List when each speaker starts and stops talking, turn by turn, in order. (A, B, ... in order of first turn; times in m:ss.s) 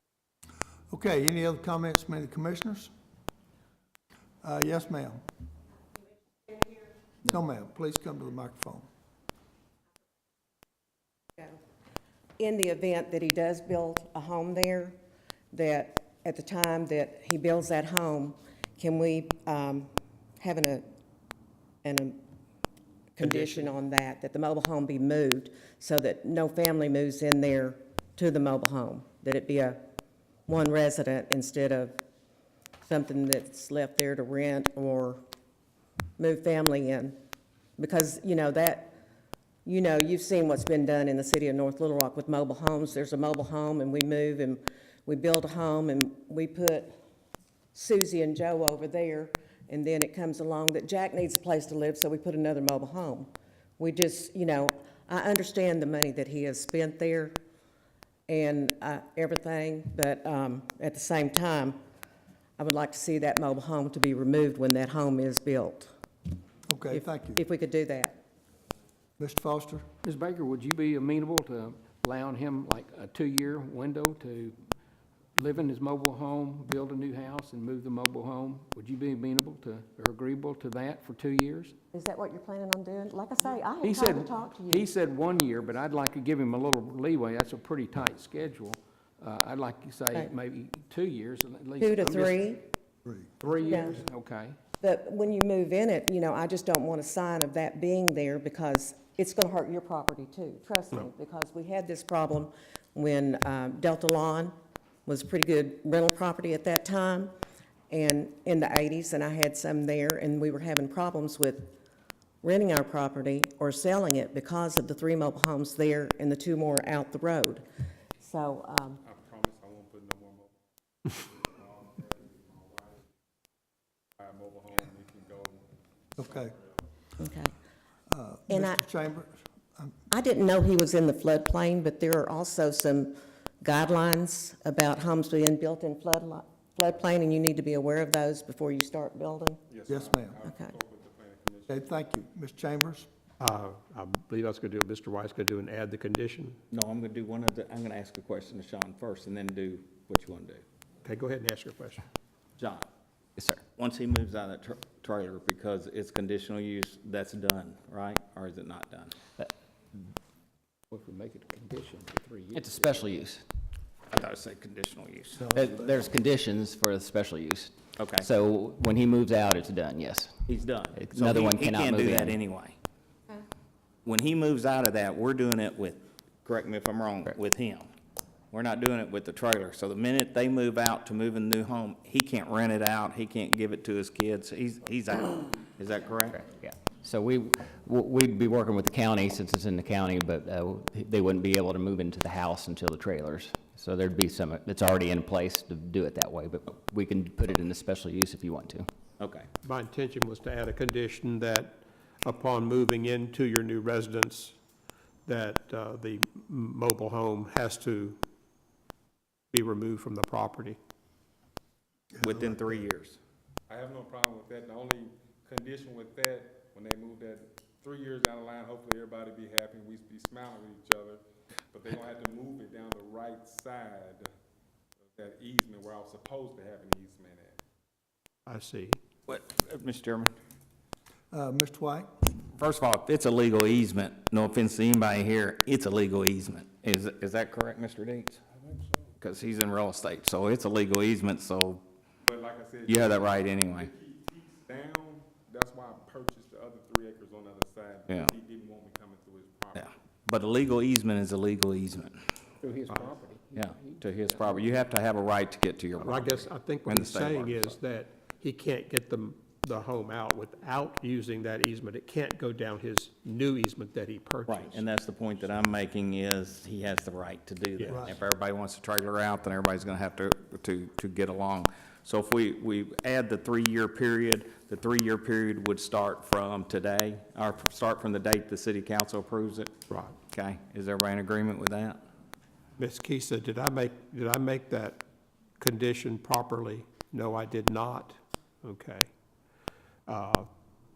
0:00.9-0:02.9 A
0:04.4-0:05.2 A
0:07.2-0:08.8 A
0:12.4-0:15.0 B
0:15.5-0:20.8 B
0:21.8-0:22.2 B
0:23.2-0:29.8 B
0:30.5-0:32.0 B
0:32.8-0:35.2 B
0:36.2-0:37.2 B
0:37.8-0:39.0 B
0:39.6-0:46.9 B
0:47.7-0:57.4 B
0:58.3-1:01.8 B
1:02.6-1:05.9 B
1:06.7-1:07.4 A
1:06.9-1:08.2 B
1:09.2-1:09.9 A
1:10.0-1:14.6 C
1:15.4-1:21.7 C
1:21.9-1:24.8 B
1:23.8-1:32.5 C
1:31.8-1:32.6 B
1:33.4-1:34.6 C
1:33.6-1:34.0 B
1:34.8-1:44.5 B
1:45.0-1:47.3 B
1:47.9-1:51.8 B
1:52.4-1:57.6 B
1:58.2-1:59.0 B
1:59.0-2:03.0 D
2:04.2-2:06.7 D
2:06.2-2:06.6 A
2:07.2-2:07.5 B
2:08.1-2:09.9 A
2:08.5-2:08.8 B
2:10.1-2:19.6 B
2:19.7-2:21.9 D
2:19.9-2:20.4 A
2:20.4-2:20.7 B
2:21.7-2:23.1 A
2:23.4-2:26.6 E
2:26.7-2:30.6 F
2:31.0-2:32.0 E
2:32.6-2:32.9 F
2:33.4-2:33.6 G
2:33.7-2:39.2 F
2:40.9-2:43.2 C
2:42.5-2:43.4 G
2:44.1-2:45.5 F
2:45.5-2:50.4 G
2:48.0-2:48.3 F
2:50.5-2:52.8 F
2:50.9-2:52.4 G
2:54.0-2:57.9 F
2:58.5-3:06.4 F
3:06.4-3:18.9 G
3:19.2-3:19.5 F
3:19.6-3:24.6 E
3:25.2-3:28.2 E
3:29.5-3:30.8 E
3:32.2-3:32.5 A
3:32.2-3:33.2 F
3:33.7-3:44.3 D
3:45.0-3:47.6 D
3:48.5-3:49.0 E
3:49.3-3:50.3 F
3:51.3-3:52.1 A
3:52.5-3:58.4 F
3:58.7-3:59.0 D
3:59.2-4:01.8 F
4:02.2-4:09.9 D
4:02.9-4:03.9 F
4:09.7-4:12.2 F
4:12.6-4:14.6 C
4:13.5-4:17.8 F
4:16.0-4:24.8 E
4:24.5-4:39.7 F
4:27.8-4:28.0 E
4:40.3-4:42.0 F
4:42.8-4:45.0 E
4:45.6-4:49.1 E
4:50.1-4:50.5 E